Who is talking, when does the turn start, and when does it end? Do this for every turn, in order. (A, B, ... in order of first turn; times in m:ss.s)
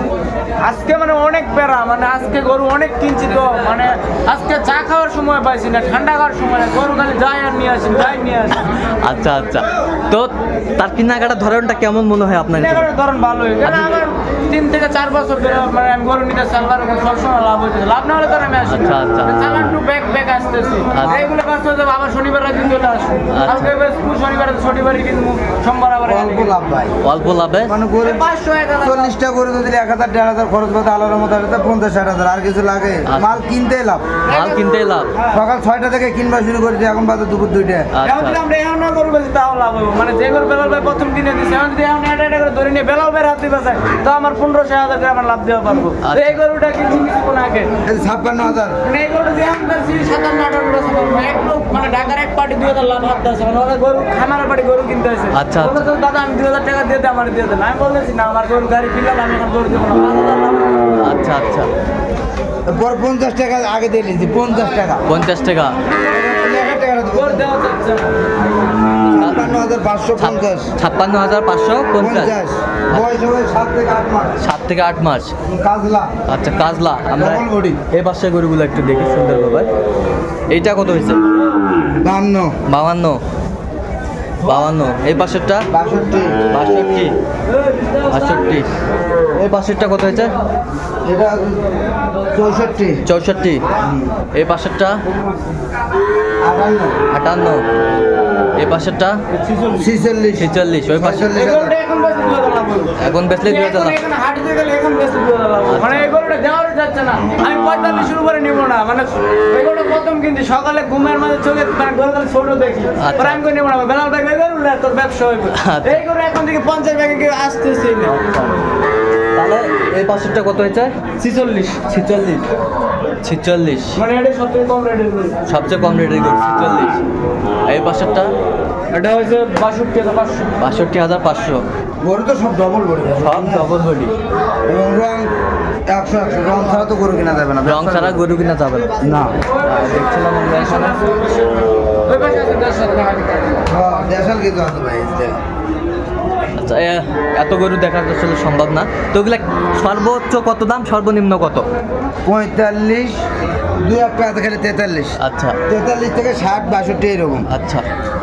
0:00.6-0:08.6 A
0:08.5-0:12.9 B
0:12.6-0:26.5 A
0:13.6-0:14.0 B
0:18.7-0:19.5 B
0:20.9-0:21.3 B
0:23.3-0:23.7 B
0:26.0-0:27.0 C
0:27.0-0:27.7 B
0:27.6-0:28.2 C
0:28.0-0:29.1 A
0:28.8-0:34.1 C
0:33.1-0:33.4 B
0:34.3-0:35.1 B
0:34.3-0:35.4 A
0:35.3-0:37.9 C
0:37.9-0:38.4 B
0:38.0-0:47.7 A
0:46.0-0:46.4 B
0:47.8-0:48.8 C
0:48.8-1:00.8 A
0:55.3-0:55.9 B
1:01.0-1:01.7 B
1:02.7-1:05.0 C
1:05.1-1:05.7 B
1:06.1-1:07.5 C
1:07.1-1:08.1 A
1:09.1-1:10.7 C
1:09.2-1:09.5 B
1:10.2-1:12.3 B
1:12.0-1:14.4 C
1:14.4-1:15.3 B
1:15.5-1:16.1 C
1:16.3-1:19.7 B
1:17.1-1:17.8 C
1:20.5-1:21.2 B
1:22.0-1:22.5 C
1:22.7-1:23.2 B
1:24.4-1:25.6 B
1:25.7-1:26.4 C
1:26.5-1:27.1 B
1:28.1-1:28.7 B
1:29.4-1:30.3 B
1:31.0-1:31.6 C
1:32.3-1:33.0 C
1:33.0-1:33.6 B
1:33.8-1:34.1 C
1:34.3-1:35.0 B
1:36.4-1:37.0 C
1:37.1-1:37.6 B
1:38.6-1:39.1 B
1:39.7-1:41.8 C
1:40.4-1:41.3 B
1:41.2-1:58.2 A
1:43.0-1:44.0 B
1:45.7-1:46.1 B
1:53.0-1:53.4 B
1:55.6-1:56.0 B
1:58.1-1:58.6 B
1:59.4-2:01.0 B
2:01.2-2:01.9 A
2:01.9-2:02.4 B
2:03.2-2:04.0 B
2:04.0-2:05.4 A
2:05.5-2:07.0 B
2:07.7-2:08.3 B
2:08.9-2:10.6 A
2:10.6-2:11.6 B
2:12.0-2:13.7 C
2:13.2-2:14.1 B
2:14.7-2:15.3 C
2:15.9-2:18.2 C
2:17.6-2:21.1 B
2:19.0-2:19.4 C
2:19.6-2:23.6 A
2:23.6-2:25.4 C
2:26.6-2:31.7 B
2:32.2-2:33.2 C
2:33.8-2:37.5 C
2:35.2-2:35.6 B
2:37.5-2:37.8 B